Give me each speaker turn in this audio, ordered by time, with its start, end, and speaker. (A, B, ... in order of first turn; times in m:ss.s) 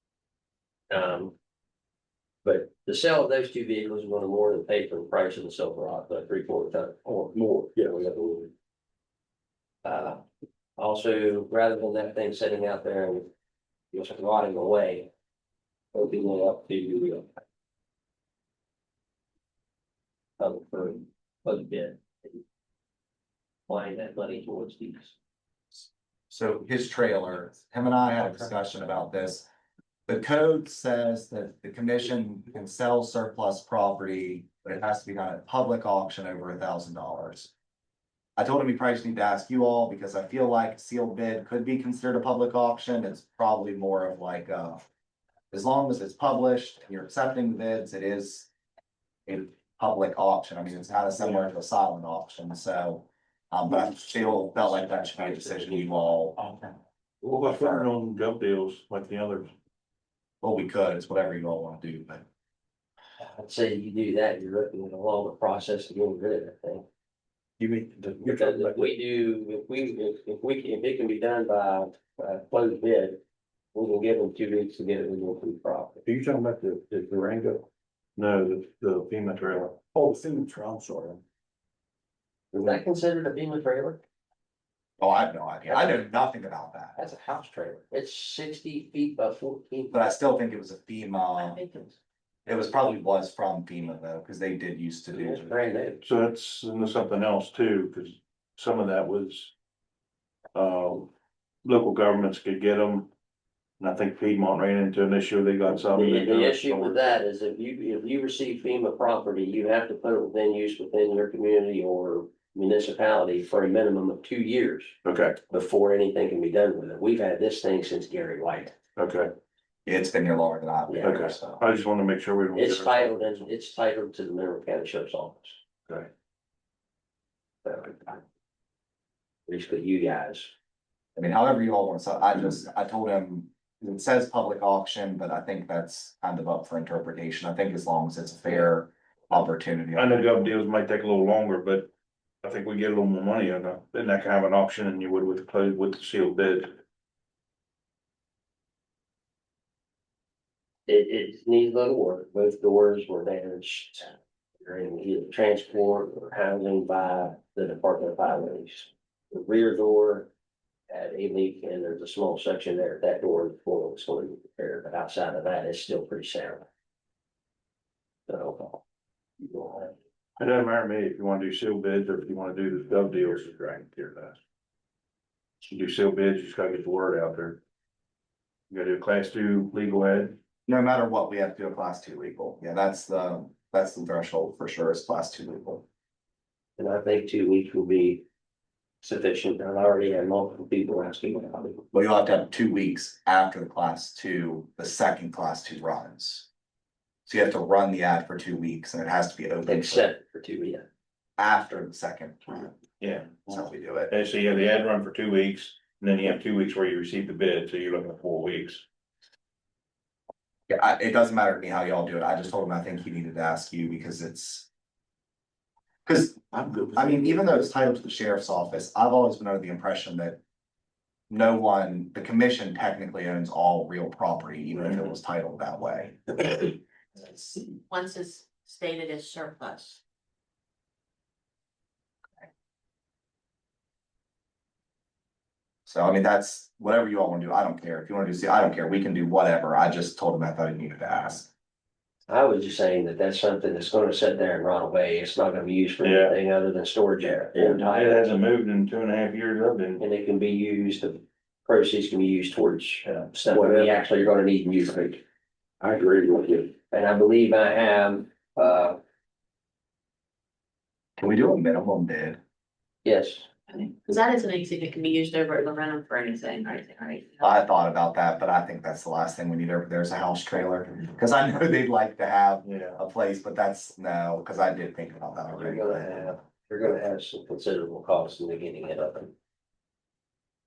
0:00.9-0:01.4 A
0:02.4-0:08.5 A
0:09.8-0:10.2 A
0:10.8-0:13.3 A
0:13.9-0:15.1 A
0:15.9-0:17.3 A
0:20.4-0:22.4 A
0:23.7-0:25.2 A
0:25.7-0:29.5 B
0:30.1-0:37.5 B
0:38.4-0:44.8 B
0:45.5-0:48.5 B
0:49.3-0:56.5 B
0:54.6-0:56.1 A
0:57.2-0:59.5 C
0:57.5-0:57.8 B
1:00.4-1:02.2 B
1:03.2-1:06.9 A
1:07.6-1:08.9 C
1:08.2-1:13.2 A
1:13.7-1:16.0 A
1:16.0-1:21.2 C
1:22.5-1:24.0 A
1:25.0-1:27.0 B
1:25.7-1:26.0 A
1:27.0-1:30.2 A
1:29.9-1:31.6 B
1:31.4-1:31.9 D
1:32.5-1:35.6 B
1:35.1-1:36.0 A
1:36.0-1:39.5 C
1:40.6-1:41.1 C
1:41.6-1:43.1 C
1:43.8-1:47.2 C
1:45.8-1:54.9 A
1:55.0-1:55.4 C
1:55.5-1:58.8 A
1:59.0-1:59.3 C
1:59.9-2:01.6 B
2:00.9-2:01.3 A
2:01.0-2:03.5 C
2:02.6-2:05.6 A
2:07.6-2:08.2 A
2:09.5-2:10.5 A
2:11.2-2:20.2 B
2:20.0-2:21.9 C
2:22.4-2:26.8 C
2:30.9-2:40.3 A
2:40.9-2:46.7 A
2:48.3-2:48.8 A
2:49.5-2:49.9 A
2:50.4-2:54.4 C
2:55.6-2:57.6 C
2:58.7-3:00.4 C
3:00.7-3:05.8 B
3:06.8-3:08.2 A
3:09.0-3:11.8 A
3:11.9-3:16.5 B
3:17.3-3:20.1 B
3:19.6-3:20.9 A
3:21.4-3:22.8 B
3:23.0-3:28.8 C
3:23.5-3:24.1 B
3:30.7-3:34.7 B
3:36.1-3:40.4 B
3:36.6-3:37.0 C
3:41.3-3:46.4 B
3:47.9-3:50.0 D
3:55.9-4:01.5 B
4:02.3-4:08.4 A
4:06.0-4:06.4 C
4:07.5-4:10.0 C
4:10.0-4:15.2 A
4:13.5-4:13.9 C
4:15.8-4:16.7 C
4:16.9-4:19.0 A
4:21.2-4:22.4 B
4:23.0-4:23.5 A
4:23.7-4:27.5 D
4:27.4-4:36.4 B
4:32.6-4:33.0 C
4:35.5-4:39.3 A